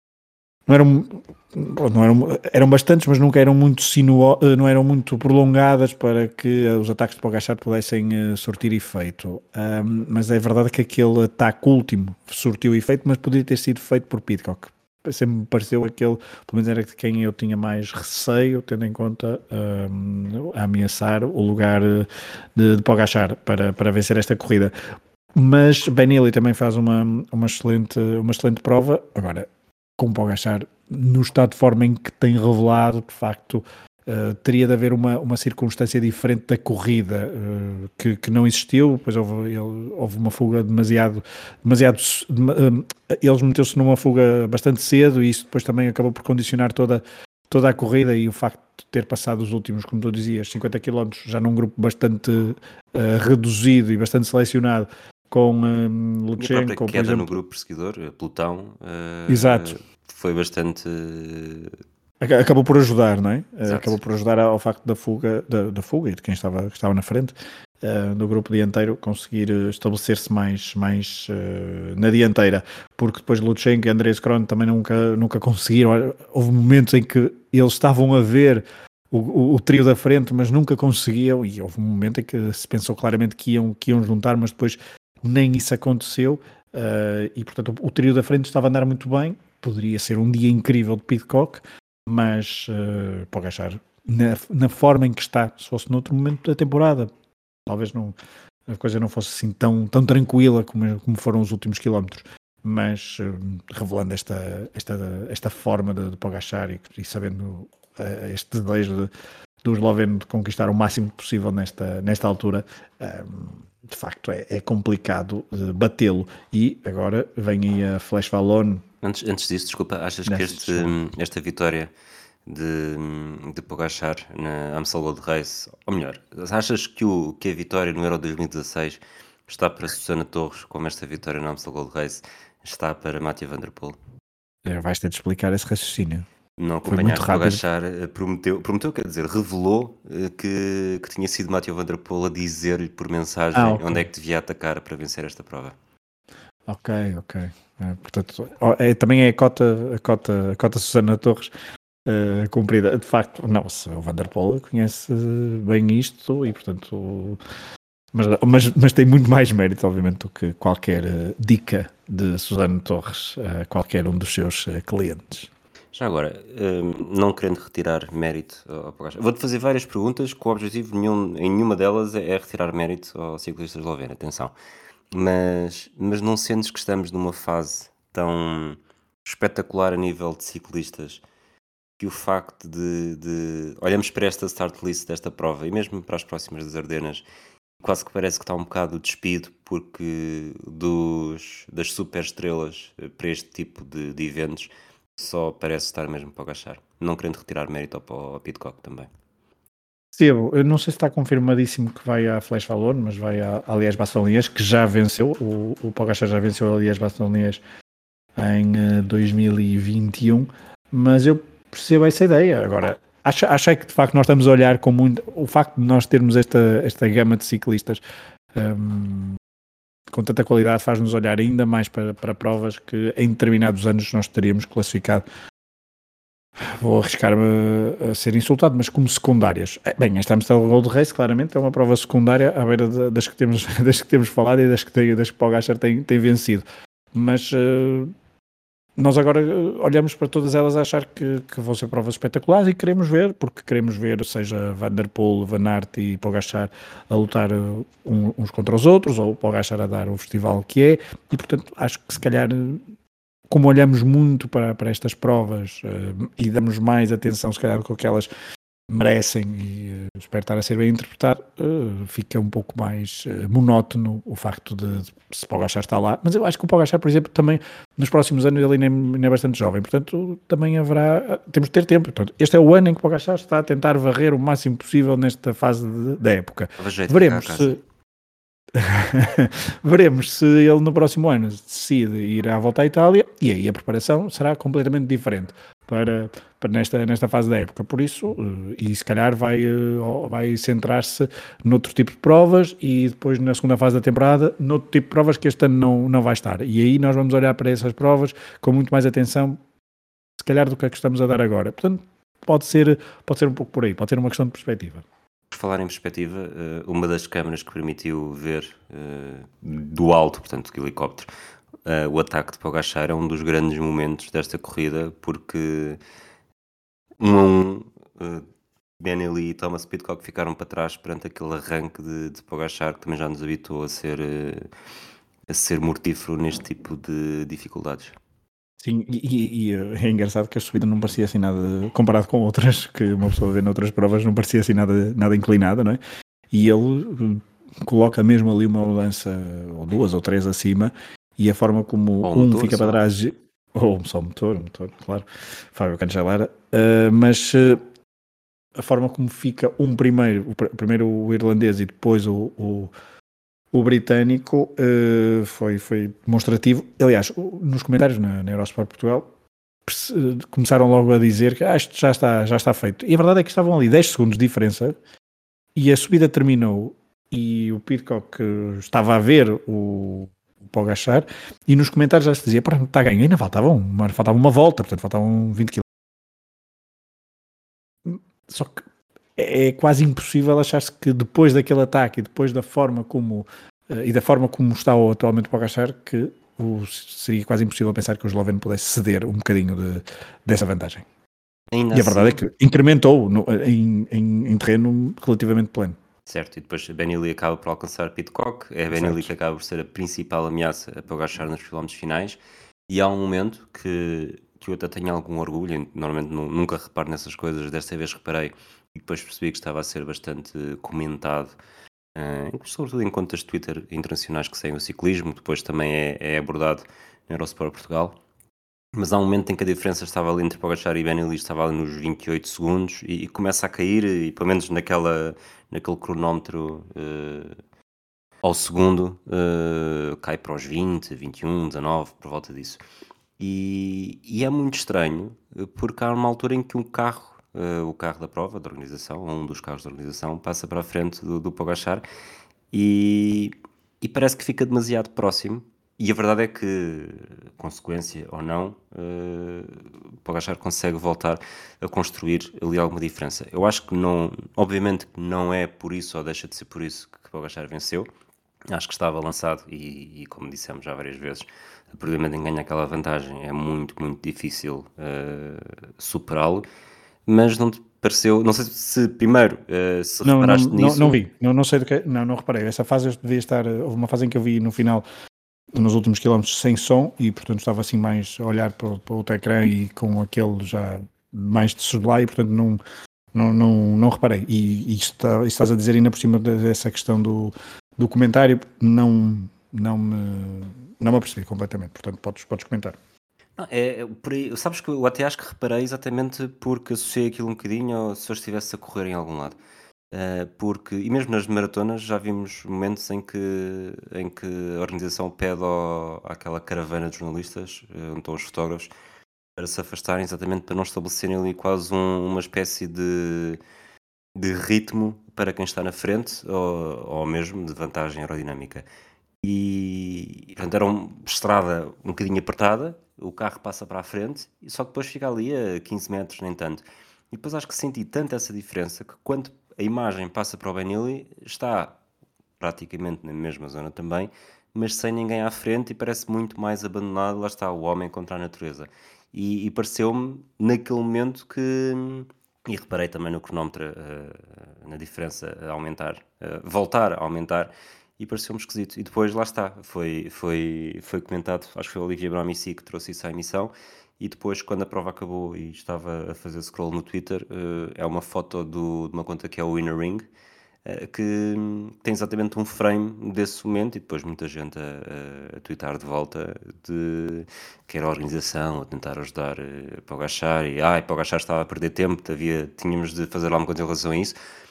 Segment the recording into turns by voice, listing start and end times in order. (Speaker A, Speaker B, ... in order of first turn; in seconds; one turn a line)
Speaker A: 0.7-24.7
Speaker A: 25.3-57.4
Speaker B: 56.4-61.7
Speaker A: 59.3-59.8
Speaker A: 62.2-97.1
Speaker B: 63.6-64.0
Speaker A: 97.7-98.2
Speaker A: 98.7-109.1
Speaker A: 109.6-118.8
Speaker B: 119.0-121.9
Speaker A: 120.3-120.9
Speaker B: 122.5-134.0
Speaker A: 134.7-136.3
Speaker B: 136.6-145.8
Speaker A: 136.9-137.6
Speaker A: 143.5-144.1
Speaker A: 146.7-151.5
Speaker A: 152.1-157.4
Speaker A: 158.1-165.5
Speaker B: 165.9-174.5
Speaker B: 175.1-181.2
Speaker B: 182.0-187.2
Speaker B: 187.8-199.1
Speaker A: 200.1-207.6
Speaker A: 208.4-218.0
Speaker A: 218.6-219.4
Speaker A: 220.1-225.2
Speaker A: 226.6-238.1
Speaker A: 239.0-252.8
Speaker A: 253.5-258.3
Speaker A: 258.9-277.8
Speaker B: 276.8-277.8
Speaker A: 278.7-299.6
Speaker A: 300.4-305.1
Speaker B: 305.5-311.3
Speaker B: 311.9-316.0
Speaker B: 317.2-318.5
Speaker B: 319.0-324.7
Speaker B: 325.5-328.1
Speaker A: 328.8-336.0
Speaker A: 336.5-347.8
Speaker B: 342.2-343.0
Speaker A: 348.8-352.9
Speaker A: 353.7-359.3
Speaker A: 359.9-365.0
Speaker A: 365.8-375.8
Speaker A: 378.1-378.9
Speaker A: 379.4-391.1
Speaker B: 391.7-392.4
Speaker A: 391.9-396.0
Speaker B: 396.3-411.6
Speaker A: 398.9-399.3
Speaker B: 412.1-418.2
Speaker B: 418.9-427.6
Speaker B: 428.4-432.8
Speaker B: 433.4-442.0
Speaker B: 442.7-458.1
Speaker B: 458.7-466.7
Speaker B: 467.3-471.2
Speaker A: 470.2-475.1
Speaker A: 475.7-482.8
Speaker A: 483.3-493.0
Speaker B: 493.6-499.6
Speaker B: 500.1-508.9
Speaker B: 509.6-513.6
Speaker B: 514.4-518.9
Speaker B: 519.4-532.0
Speaker B: 532.6-560.2
Speaker B: 560.9-574.4